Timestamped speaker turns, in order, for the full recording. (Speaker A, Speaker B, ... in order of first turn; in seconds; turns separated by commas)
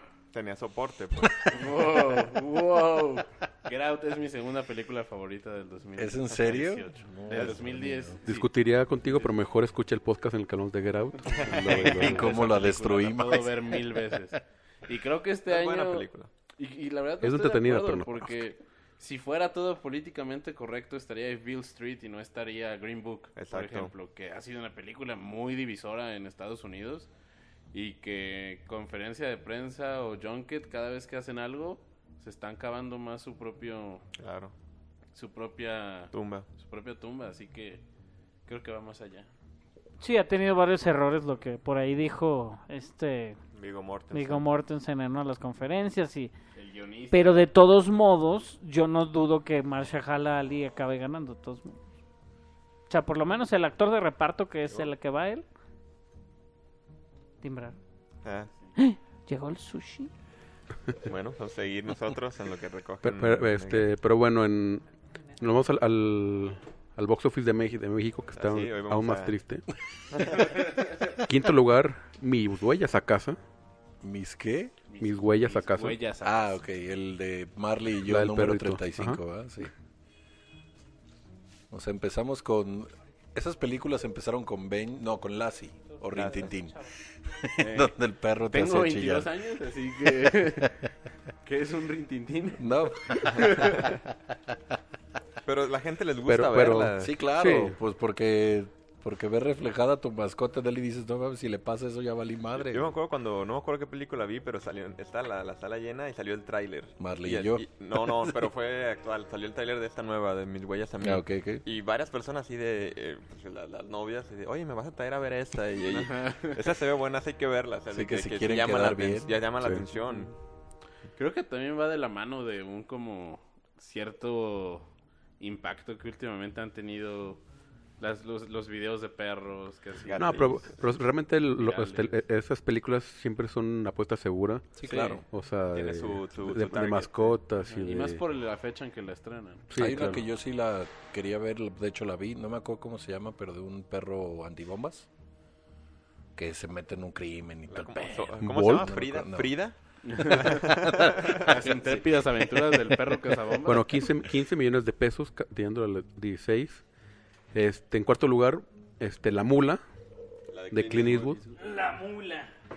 Speaker A: 0.3-1.6, Speaker B: 1.2-1.5, Speaker C: 1.5-8.5, Speaker B: 6.0-8.2, Speaker A: 7.3-7.6, Speaker D: 8.3-12.3, Speaker C: 11.3-27.1, Speaker A: 11.3-11.7, Speaker B: 11.4-14.4, Speaker A: 15.5-16.3, Speaker D: 17.2-18.3, Speaker A: 23.4-23.9, Speaker C: 27.7-34.0, Speaker A: 34.2-34.5, Speaker C: 35.1-37.8, Speaker A: 36.1-36.5, Speaker C: 38.5-39.3, Speaker E: 40.0-43.4, Speaker A: 43.5-44.5, Speaker E: 44.1-46.3, Speaker C: 46.5-47.4, Speaker E: 47.1-51.9, Speaker E: 52.9-55.5, Speaker E: 57.4-57.8, Speaker A: 58.2-58.5, Speaker E: 58.8-60.1, Speaker A: 61.0-63.9, Speaker D: 63.0-64.9, Speaker D: 65.4-69.7, Speaker A: 68.3-69.4, Speaker A: 70.1-70.5, Speaker D: 71.2-73.4, Speaker B: 74.0-74.8, Speaker C: 74.9-76.5, Speaker D: 75.0-76.0, Speaker B: 76.2-79.7, Speaker D: 78.1-79.2, Speaker B: 81.7-89.3, Speaker E: 86.1-86.9, Speaker C: 87.6-88.0, Speaker C: 88.5-90.9, Speaker C: 91.4-93.9, Speaker B: 92.6-94.3, Speaker A: 95.4-97.2, Speaker D: 96.3-97.8, Speaker B: 97.0-103.0, Speaker A: 102.6-120.3, Speaker B: 107.0-108.4, Speaker B: 111.0-111.6, Speaker C: 115.9-116.6, Speaker B: 117.9-119.3, Speaker D: 119.6-119.9, Speaker C: 121.2-124.9, Speaker C: 125.4-127.4, Speaker C: 128.0-130.6, Speaker A: 130.0-130.7, Speaker D: 130.2-134.7, Speaker C: 131.6-132.2, Speaker B: 134.8-135.2, Speaker A: 134.9-137.4, Speaker D: 135.3-138.2, Speaker C: 137.6-140.1, Speaker D: 139.7-140.2, Speaker B: 139.7-145.1, Speaker B: 146.3-149.5, Speaker A: 147.7-151.5, Speaker D: 148.4-148.9, Speaker C: 150.1-153.9, Speaker B: 150.7-152.0, Speaker D: 153.7-156.8, Speaker D: 157.5-159.8, Speaker A: 160.5-161.6, Speaker D: 160.7-161.4, Speaker E: 161.6-162.5